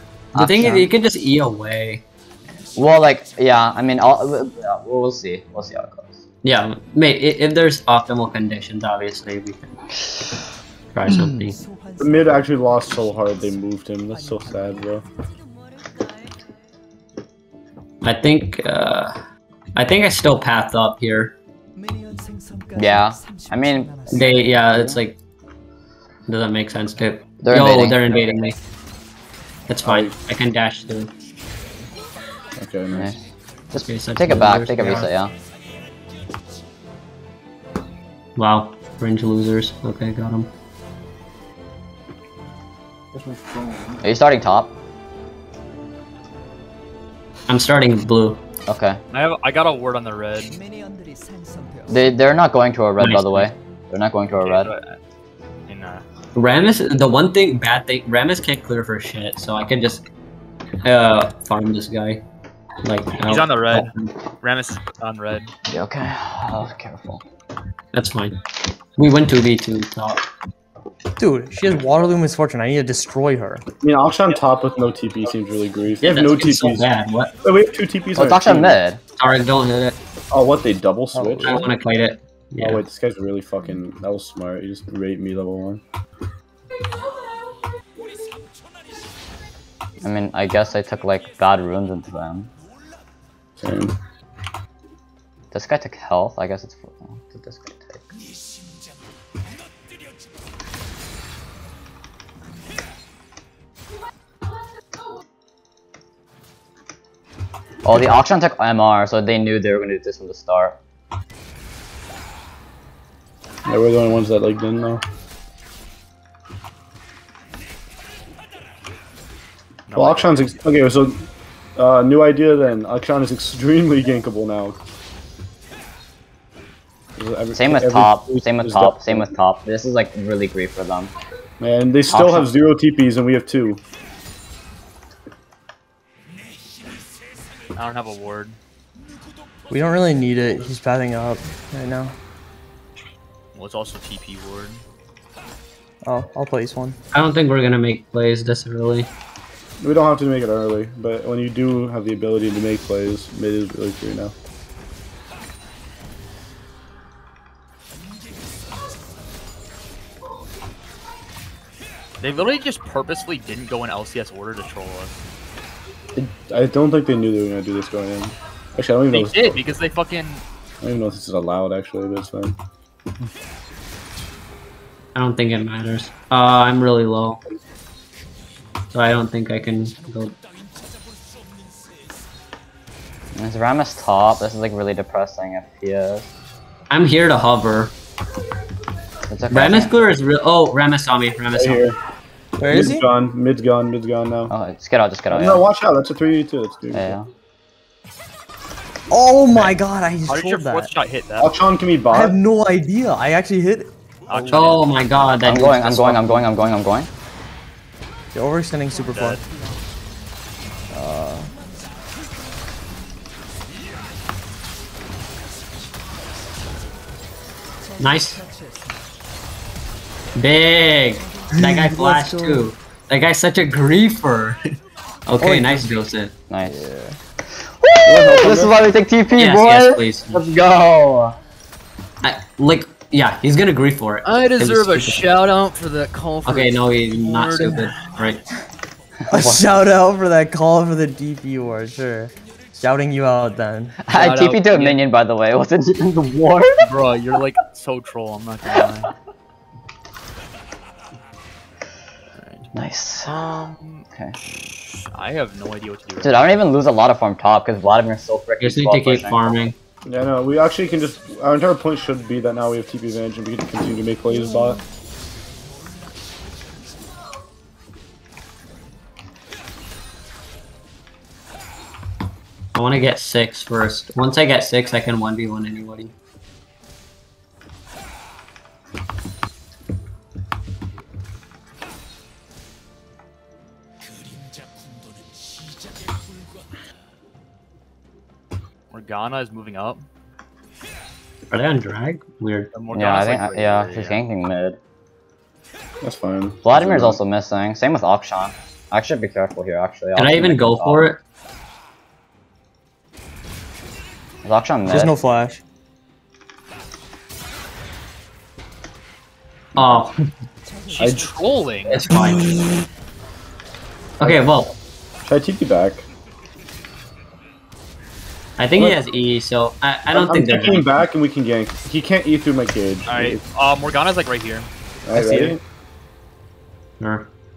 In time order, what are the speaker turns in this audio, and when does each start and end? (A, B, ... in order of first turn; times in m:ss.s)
0:00.3-0:00.9 A
0:00.3-0:02.0 B
0:02.8-0:06.2 A
0:06.4-0:09.8 B
0:10.9-0:11.6 B
0:12.0-0:15.0 C
0:18.0-0:19.2 B
0:19.8-0:21.3 B
0:22.7-0:24.2 A
0:24.1-0:25.2 B
0:26.3-0:28.5 B
0:27.4-0:28.4 A
0:29.7-0:31.1 B
0:29.8-0:30.1 C
0:32.6-0:33.1 C
0:33.7-0:35.3 A
0:33.7-0:35.1 B
0:38.4-0:40.5 B
0:44.0-0:44.7 A
0:47.5-0:48.4 B
0:48.7-0:49.0 A
0:49.1-0:50.6 D
0:51.9-0:54.7 A
0:53.0-0:53.5 B
0:54.4-0:55.0 D
0:55.7-0:56.0 D
0:56.3-1:00.0 B
1:00.8-1:02.2 B
1:02.8-1:04.1 B
1:03.2-1:05.5 D
1:05.7-1:07.2 A
1:07.9-1:08.4 B
1:09.0-1:10.2 B
1:11.2-1:13.6 E
1:13.8-1:16.9 C
1:16.0-1:17.3 B
1:17.4-1:18.8 C
1:18.2-1:19.0 A
1:19.2-1:20.0 B
1:20.3-1:21.6 C
1:21.1-1:21.7 E
1:21.4-1:22.8 B
1:22.6-1:25.8 C
1:30.0-1:32.5 A
1:33.6-1:33.9 C
1:35.5-1:38.1 A
1:47.8-1:50.8 A
1:53.6-1:55.0 C
1:59.9-2:00.6 D
1:59.9-2:04.8 C
2:07.2-2:09.3 C
2:07.5-2:11.1 A
2:11.6-2:13.8 C
2:12.1-2:12.5 A
2:17.7-2:18.6 D
2:19.7-2:22.1 E
2:23.5-2:24.8 D
2:26.0-2:27.0 E
2:27.1-2:29.1 B
2:29.8-2:34.3 C
2:42.2-2:45.1 D
2:46.1-2:49.7 C
2:49.1-2:50.4 D
2:50.8-2:52.6 C
2:55.1-2:57.4 B
2:58.9-3:00.4 B
3:03.3-3:06.3 A
3:06.9-3:07.9 B
3:09.3-3:10.0 A
3:09.5-3:11.8 B
3:11.5-3:12.0 C
3:12.6-3:13.1 E
3:12.6-3:14.5 C
3:14.5-3:15.6 A
3:15.3-3:17.2 C
3:16.9-3:17.3 A
3:19.1-3:20.9 E
3:19.5-3:21.5 D
3:21.4-3:22.4 C
3:22.1-3:24.5 E
3:24.3-3:24.9 D
3:24.5-3:26.5 B
3:25.4-3:27.1 A
3:28.3-3:29.4 E
3:29.1-3:29.4 D
3:30.9-3:31.5 E
3:38.0-3:38.4 B
3:40.3-3:44.6 B
3:41.5-3:42.6 E
3:45.2-3:46.3 B
3:45.4-3:45.9 E
3:46.5-3:46.8 A
3:46.6-3:47.2 E
3:47.8-3:51.4 A
3:48.0-3:48.8 C
3:49.4-3:50.4 B
3:52.2-3:55.2 B
3:54.2-3:57.9 D
3:56.4-3:58.4 B
3:59.3-3:59.6 A
3:59.3-4:04.0 E
4:04.0-4:06.9 A
4:04.0-4:05.0 D
4:06.8-4:09.1 D
4:12.3-4:12.7 D
4:12.7-4:13.4 A
4:13.2-4:16.5 D
4:16.2-4:19.6 A
4:18.6-4:19.7 B
4:20.0-4:24.8 C
4:32.7-4:36.1 B
4:48.9-4:50.0 D
4:51.5-4:52.7 B
4:52.7-4:54.2 D
4:52.9-4:54.8 A
4:56.0-4:57.2 C
4:56.6-5:01.1 A
5:00.2-5:01.2 B
5:04.4-5:05.1 A
5:04.8-5:05.6 E
5:09.7-5:10.2 B
5:10.9-5:12.6 D
5:11.0-5:11.3 C
5:11.9-5:12.6 B
5:14.2-5:14.4 C
5:14.2-5:14.7 B
5:15.2-5:16.1 C
5:18.6-5:20.9 B
5:18.8-5:19.0 C
5:20.1-5:23.4 C
5:23.1-5:24.7 D
5:25.0-5:25.6 C
5:25.1-5:25.5 E
5:27.0-5:27.3 B